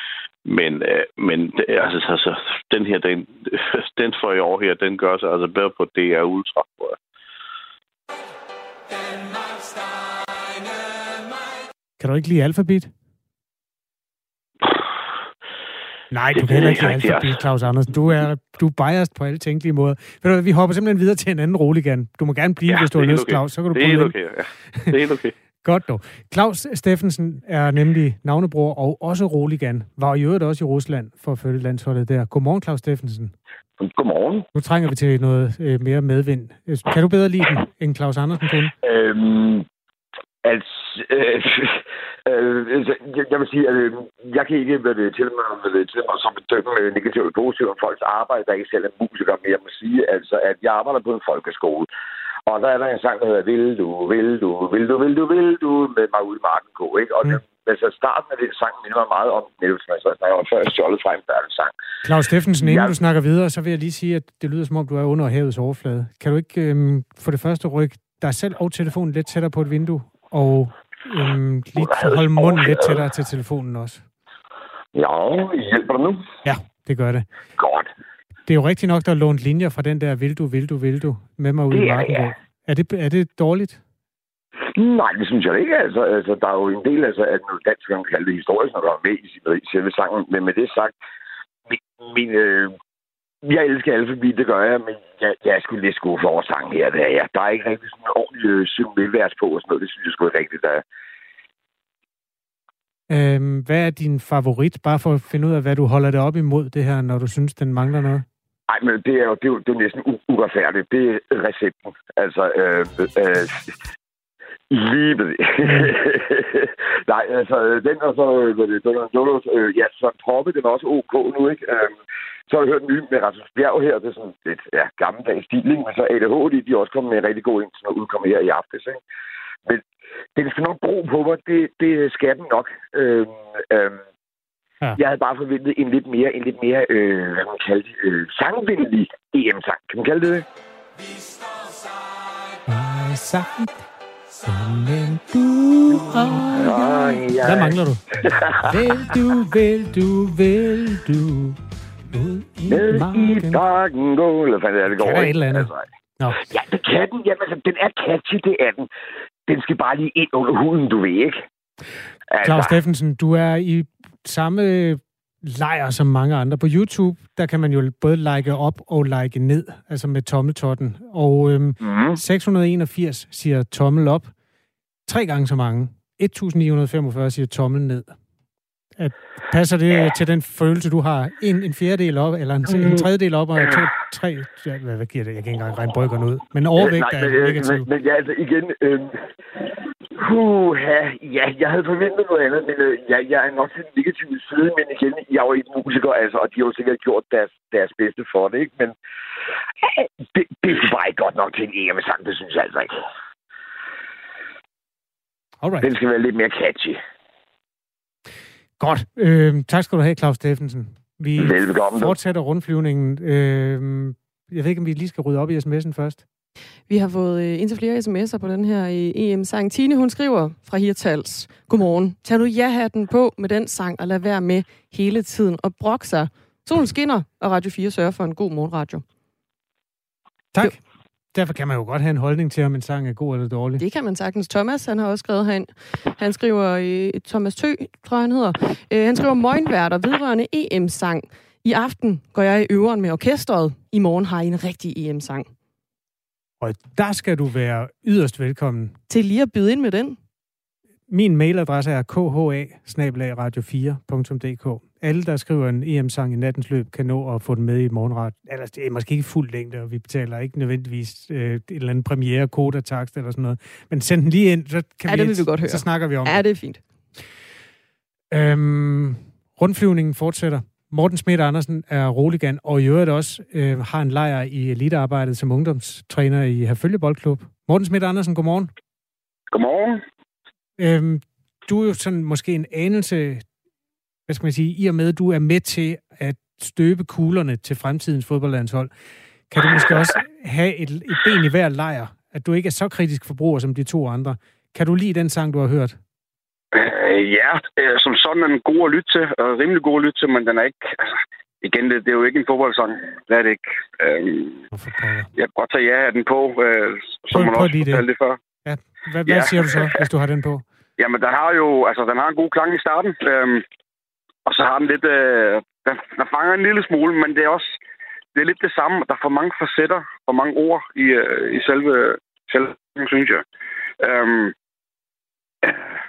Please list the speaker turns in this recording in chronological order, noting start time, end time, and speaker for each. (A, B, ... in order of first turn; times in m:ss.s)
0:00.4-0:07.0 A
0:12.0-0:12.9 B
0:16.1-0:24.2 B
0:16.4-0:17.4 A
0:22.7-0:25.3 A
0:25.6-0:33.3 B
0:33.8-0:34.4 C
0:34.5-0:38.7 B
0:38.8-0:39.6 C
0:40.4-0:51.9 C
0:52.5-1:01.7 C
1:02.0-1:14.0 B
1:02.6-1:02.9 C
1:11.8-1:13.0 C
1:14.9-1:16.2 C
1:16.4-1:17.2 B
1:17.6-1:17.9 C
1:18.5-1:23.8 B
1:21.7-1:22.3 C
1:24.7-1:31.0 C
1:31.7-1:32.7 C
1:33.4-1:40.8 C
1:43.1-1:48.2 B
1:48.7-1:53.7 C
1:54.7-2:02.0 C
1:55.6-1:55.9 B
2:02.5-2:09.0 C
2:10.4-2:14.0 C
2:15.0-2:20.4 C
2:22.7-2:23.7 B
2:24.4-2:28.0 B
2:26.5-2:28.6 C
2:28.6-2:33.6 B
2:32.7-2:38.9 C
2:35.0-2:36.4 B
2:39.5-2:41.4 C
2:42.3-2:42.8 C
2:42.4-2:54.3 B
2:51.8-2:52.2 C
2:55.1-2:58.2 B
2:59.0-3:07.9 B
3:06.8-3:09.2 C
3:10.2-3:18.9 C
3:19.8-3:22.9 C
3:25.6-3:25.9 B
3:25.8-3:27.0 C
3:28.8-3:36.2 B
3:31.4-3:32.2 C
3:36.9-3:49.0 D
3:50.5-3:50.8 B
3:51.3-3:53.8 B
3:53.8-4:05.5 D
4:06.6-4:09.0 B
4:09.1-4:10.2 D
4:11.1-4:26.4 B
4:25.1-4:26.8 D
4:28.3-4:38.7 B
4:39.5-4:40.0 E
4:40.8-4:43.4 B
4:44.3-4:48.9 B
4:49.5-4:56.0 B
4:56.7-5:01.0 E
5:01.6-5:04.6 E
5:04.7-5:05.3 B
5:05.4-5:08.4 E
5:07.3-5:08.0 B
5:08.6-5:10.6 B
5:09.2-5:09.8 E
5:11.0-5:13.6 E
5:14.4-5:17.7 E
5:18.3-5:23.4 E
5:24.0-5:24.5 E